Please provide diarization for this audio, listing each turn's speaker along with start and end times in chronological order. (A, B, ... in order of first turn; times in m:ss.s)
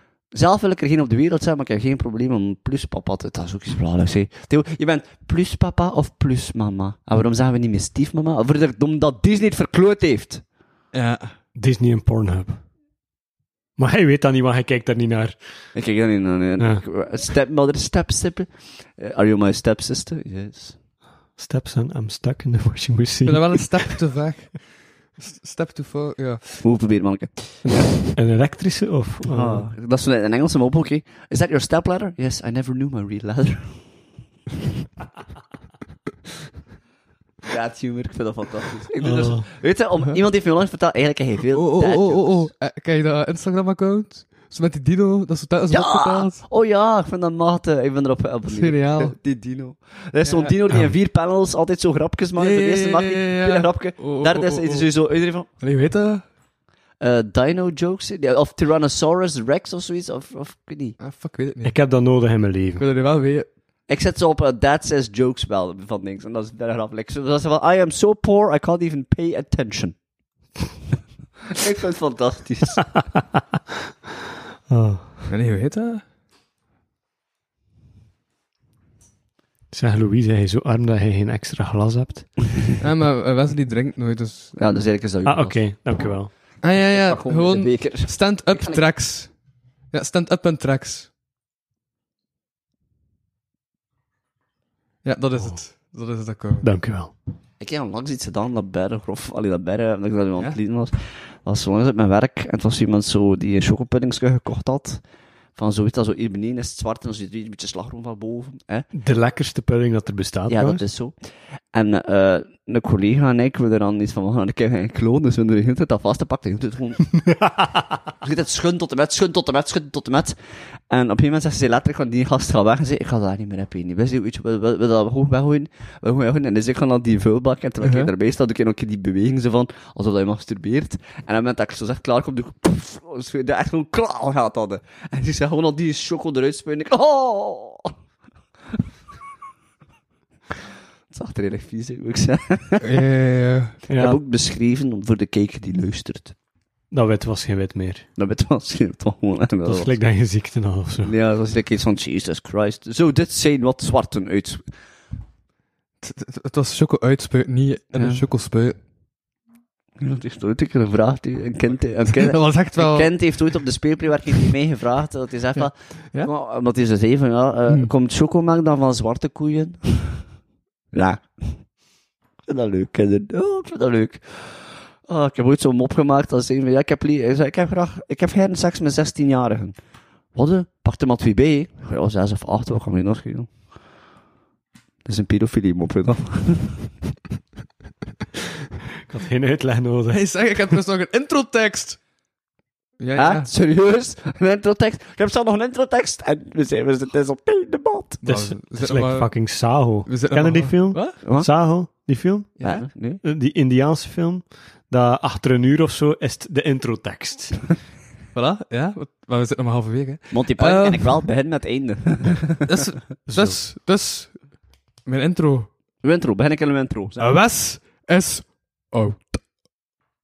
0:00.3-0:10.4 A
0:10.9-0:11.3 B
0:11.5-0:12.6 C
0:13.8-0:15.4 C
0:15.7-0:20.8 A
0:21.4-0:24.0 C
0:23.2-0:26.4 B
0:26.6-0:27.9 A
0:27.6-0:29.7 C
0:29.3-0:33.8 A
0:37.4-0:42.5 A
0:39.0-0:39.4 C
0:41.5-0:46.4 B
0:45.7-0:55.5 A
0:48.5-0:49.2 B
0:50.2-0:50.6 B
0:52.4-0:54.9 B
0:55.6-0:56.2 B
0:57.0-1:01.0 A
1:01.0-1:01.8 B
1:01.6-1:02.8 C
1:02.8-1:03.5 B
1:03.9-1:10.0 A
1:11.5-1:13.0 A
1:14.7-1:15.3 C
1:15.3-1:16.0 B
1:19.7-1:22.5 C
1:22.8-1:24.5 B
1:24.6-1:26.1 A
1:25.2-1:26.3 C
1:26.6-1:29.3 B
1:26.7-1:28.8 A
1:29.9-1:31.1 B
1:35.0-1:36.7 B
1:36.6-1:37.1 C
1:37.6-1:45.0 A
1:45.6-1:48.9 A
1:48.9-1:50.8 C
1:50.5-1:51.1 A
1:51.7-1:57.3 A
1:58.2-2:00.4 A
2:00.9-2:17.9 A
2:07.8-2:08.1 B
2:21.1-2:22.9 A
2:22.8-2:23.8 B
2:23.9-2:24.2 C
2:23.9-2:26.3 A
2:26.9-2:28.0 C
2:28.2-2:30.0 A
2:29.6-2:31.1 C
2:31.0-2:34.6 A
2:36.0-2:38.8 B
2:37.9-2:38.2 A
2:40.0-2:50.2 A
2:42.1-2:43.2 B
2:45.6-2:46.3 B
2:50.9-2:51.6 A
2:52.4-2:59.8 A
3:00.3-3:03.5 A
3:05.0-3:06.9 A
3:09.0-3:10.2 C
3:10.1-3:12.0 B
3:13.0-3:13.5 B
3:13.1-3:18.2 A
3:18.2-3:19.4 B
3:18.2-3:22.6 C
3:20.0-3:21.2 B
3:21.2-3:21.5 A
3:22.6-3:22.8 B
3:22.6-3:23.2 A
3:23.2-3:27.7 C
3:28.3-3:31.2 B
3:30.3-3:32.8 A
3:32.6-3:34.4 B
3:33.3-3:33.6 C
3:35.0-3:35.7 B
3:36.0-3:37.4 A
3:37.2-3:39.5 B